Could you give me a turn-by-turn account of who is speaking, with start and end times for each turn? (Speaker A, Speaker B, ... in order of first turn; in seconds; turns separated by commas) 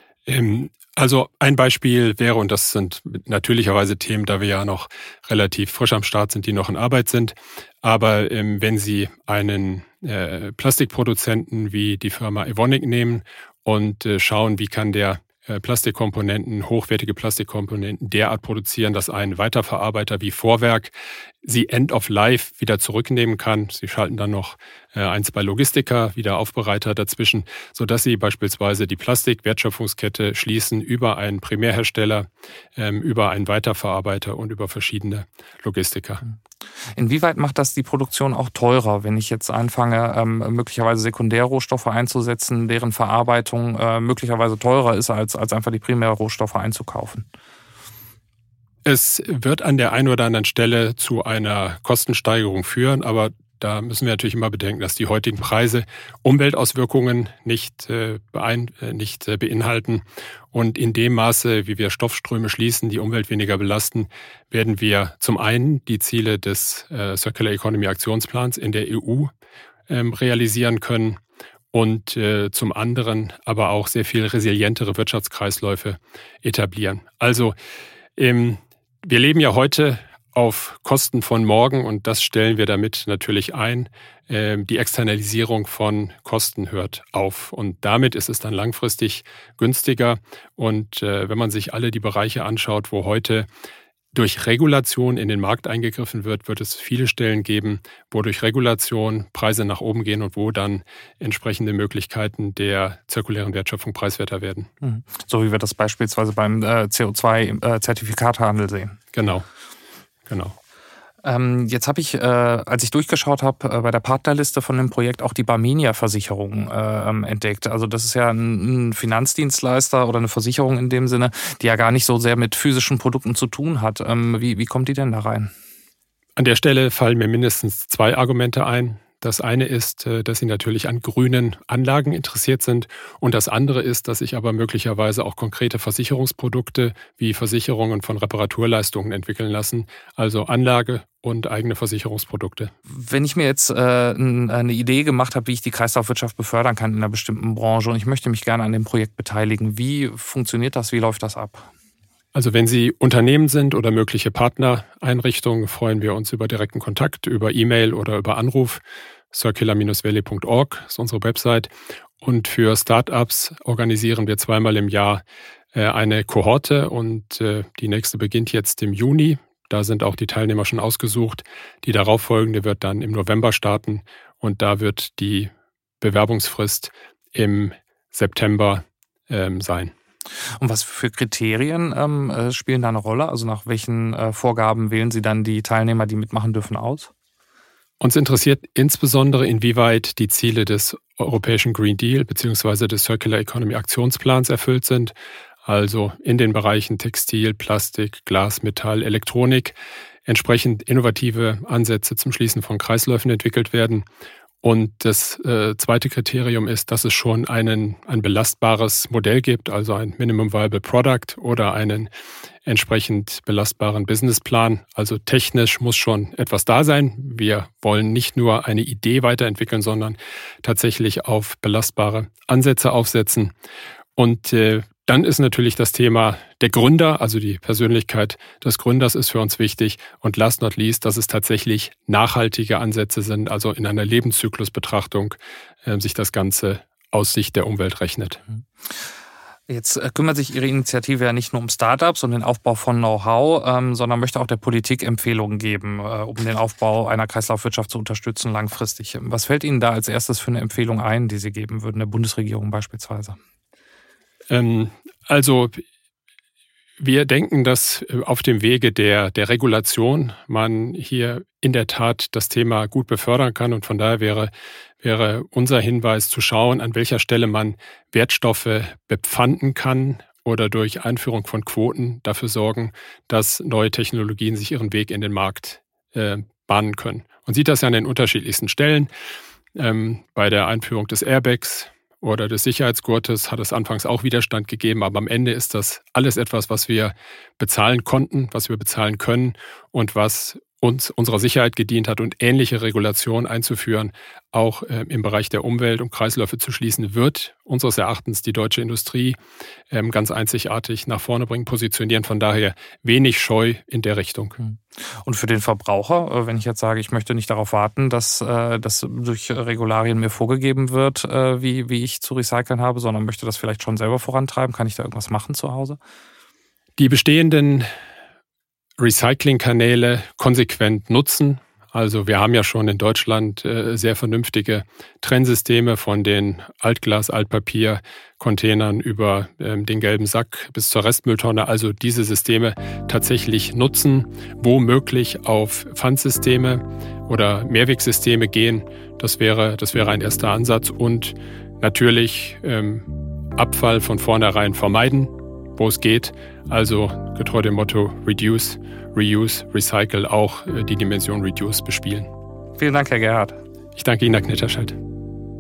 Speaker A: 0.3-36.2, Speaker B: 37.0-47.2, Speaker A: 48.9-69.3, Speaker A: 69.9-71.2, Speaker A: 71.7-77.6, Speaker A: 78.2-93.5, Speaker A: 94.1-104.7, Speaker B: 104.8-109.0, Speaker A: 109.1-109.4, Speaker A: 110.3-110.6, Speaker B: 111.2-125.5, Speaker A: 126.4-142.7, Speaker B: 142.9-151.7, Speaker A: 152.3-161.7, Speaker A: 162.2-165.2, Speaker A: 165.7-179.9, Speaker B: 180.6-187.1, Speaker A: 188.0-195.1, Speaker A: 195.6-204.1, Speaker A: 204.6-212.1, Speaker A: 212.7-223.5, Speaker A: 224.2-238.4, Speaker B: 239.7-253.4, Speaker A: 254.5-255.8, Speaker A: 257.0-279.1, Speaker A: 279.8-299.4, Speaker A: 299.9-304.6, Speaker B: 304.6-316.0, Speaker A: 317.0-317.9, Speaker A: 319.0-352.3, Speaker B: 352.8-353.6, Speaker A: 354.0-355.0